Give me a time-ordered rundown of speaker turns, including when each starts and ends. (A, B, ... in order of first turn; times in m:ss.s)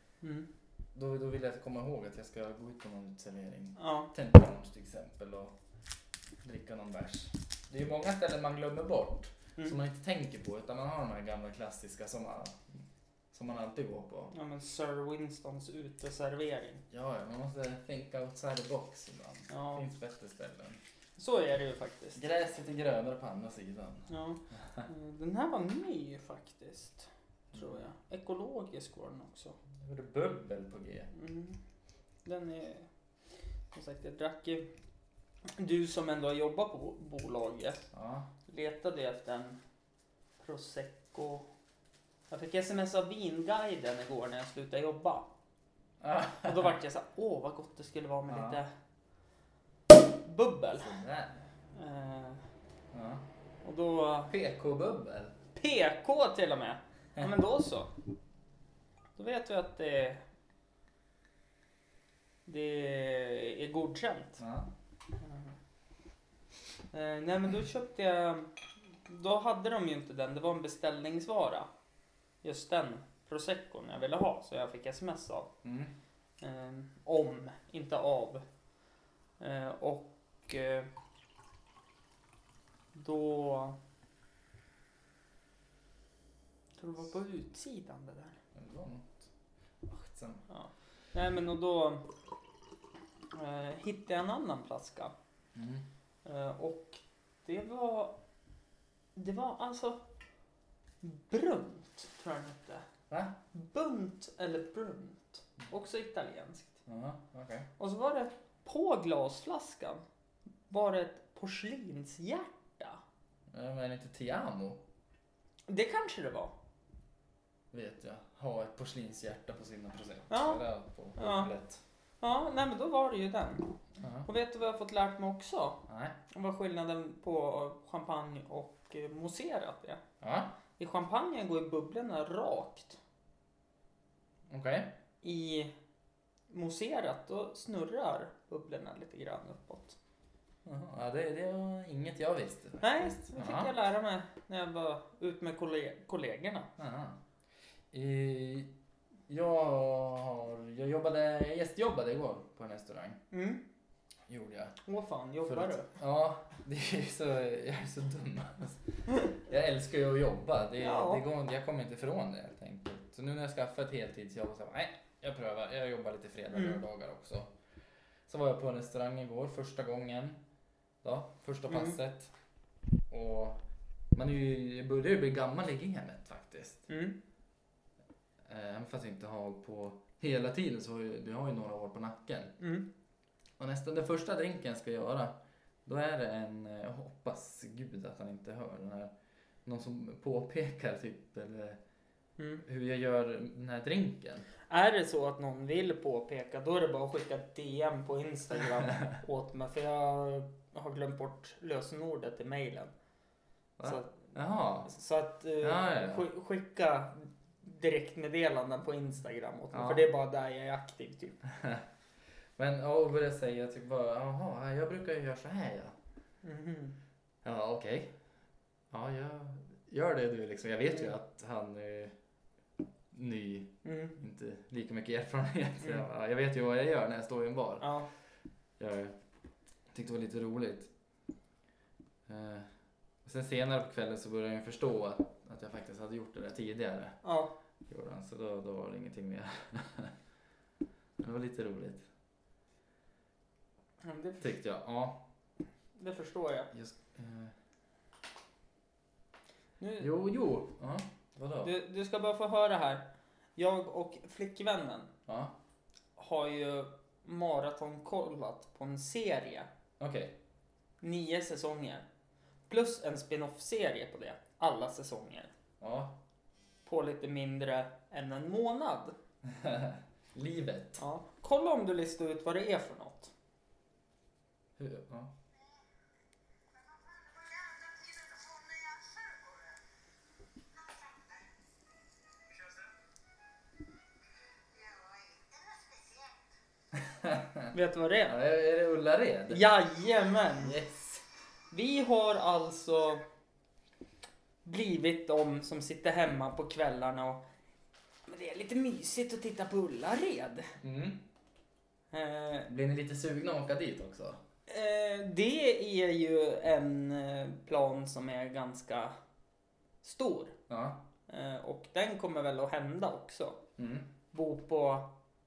0:00.9-0:05.5 A
0:03.8-0:04.1 B
0:06.4-0:12.8 A
0:13.3-0:14.3 A
0:14.3-0:16.8 B
0:16.9-0:20.8 A
0:19.5-0:19.8 B
0:21.2-0:22.2 B
0:22.1-0:24.1 A
0:24.1-0:29.6 B
0:27.5-0:27.8 A
0:29.8-0:31.1 A
0:31.1-0:31.6 B
0:32.2-0:32.9 B
0:33.7-0:34.7 B
0:35.6-0:37.8 B
0:37.9-0:38.3 A
0:38.5-0:39.6 B
0:40.4-0:41.5 B
0:42.3-0:45.3 B
0:46.0-0:46.8 A
0:46.4-0:48.7 B
0:48.3-0:48.6 A
0:50.1-0:50.9 B
0:50.7-0:51.4 A
0:51.7-0:52.4 B
0:52.9-0:53.2 A
0:53.6-0:54.3 B
0:54.3-0:55.4 A
0:55.6-0:57.9 B
0:59.2-1:00.2 B
1:02.4-1:04.4 B
1:04.4-1:04.7 A
1:05.2-1:05.5 B
1:06.9-1:08.5 B
1:09.0-1:11.7 B
1:12.4-1:15.5 B
1:15.6-1:15.9 A
1:16.4-1:18.4 B
1:19.4-1:20.9 B
1:22.9-1:23.8 B
1:26.8-1:28.4 B
1:28.5-1:29.3 A
1:29.8-1:30.4 A
1:30.5-1:32.0 B
1:33.3-1:35.1 B
1:35.5-1:35.9 A
1:36.2-1:38.2 B
1:39.2-1:40.0 B
1:41.0-1:42.8 B
1:43.1-1:43.4 A
1:43.5-1:46.8 B
1:46.8-1:47.7 A
1:47.8-1:50.0 B
1:50.7-1:53.0 B
1:53.5-1:54.8 A
1:55.7-1:56.5 B
1:57.7-2:01.8 A
2:00.3-2:00.6 B
2:01.2-2:01.5 B
2:02.2-2:10.0 B
2:04.0-2:04.3 A
2:05.9-2:06.2 A
2:10.2-2:10.5 A
2:10.8-2:13.0 B
2:14.5-2:14.9 A
2:15.2-2:15.7 B
2:16.5-2:20.0 B
2:20.6-2:23.7 A
2:22.8-2:26.7 B
2:26.8-2:27.2 A
2:27.9-2:28.7 A
2:29.3-2:33.2 A
2:33.3-2:33.6 B
2:34.3-2:34.8 A
2:34.8-2:35.9 B
2:35.4-2:47.5 A
2:40.8-2:41.2 B
2:46.5-2:46.8 B
2:48.3-2:50.4 A
2:51.0-2:52.3 A
2:51.7-2:52.0 B
2:53.1-2:53.6 A
2:54.1-2:56.8 A
2:56.9-2:57.2 B
2:58.4-3:02.5 A
3:02.6-3:02.8 B
3:03.6-3:09.1 A
3:09.6-3:11.8 A
3:12.4-3:12.6 B
3:12.6-3:14.4 A
3:14.7-3:22.9 B
3:23.8-3:24.9 A
3:23.8-3:24.3 B
3:24.8-3:31.4 B
3:25.6-3:26.3 A
3:29.7-3:30.0 A
3:31.4-3:31.8 A
3:32.6-3:35.9 A
3:36.4-3:37.0 B
3:37.4-3:38.2 A
3:38.9-3:42.2 A
3:43.1-3:47.9 A
3:43.8-3:44.2 B
3:47.8-3:48.1 B
3:48.8-3:49.2 A
3:49.9-3:50.9 A
3:52.3-3:52.7 A
3:53.2-3:57.2 A
3:57.2-3:57.5 B
3:57.9-4:00.1 A
4:01.2-4:02.0 A
4:04.0-4:04.4 B
4:04.4-4:05.2 A
4:06.0-4:06.7 B
4:06.7-4:07.5 A
4:09.8-4:10.1 B
4:10.0-4:11.7 A
4:11.6-4:13.0 B
4:13.6-4:15.1 B
4:15.3-4:15.6 A
4:16.2-4:19.7 B
4:20.0-4:20.3 A
4:21.0-4:22.0 B
4:22.7-4:25.5 B
4:25.8-4:26.2 A
4:26.8-4:29.1 B
4:29.4-4:31.0 A
4:31.0-4:33.3 B
4:34.8-4:35.3 A
4:46.9-4:47.7 A
4:47.7-4:48.4 B
4:48.2-4:49.6 A
4:49.5-4:50.8 B
4:50.6-4:51.2 A
4:51.7-4:53.2 B
4:54.6-4:57.4 B
4:58.3-5:00.7 B
5:00.8-5:01.2 A
5:02.1-5:02.7 B
5:02.7-5:04.4 A
5:04.7-5:09.1 B
5:10.0-5:10.6 B
5:10.7-5:11.0 A
5:11.3-5:13.6 B
5:13.8-5:14.1 A
5:14.3-5:15.1 B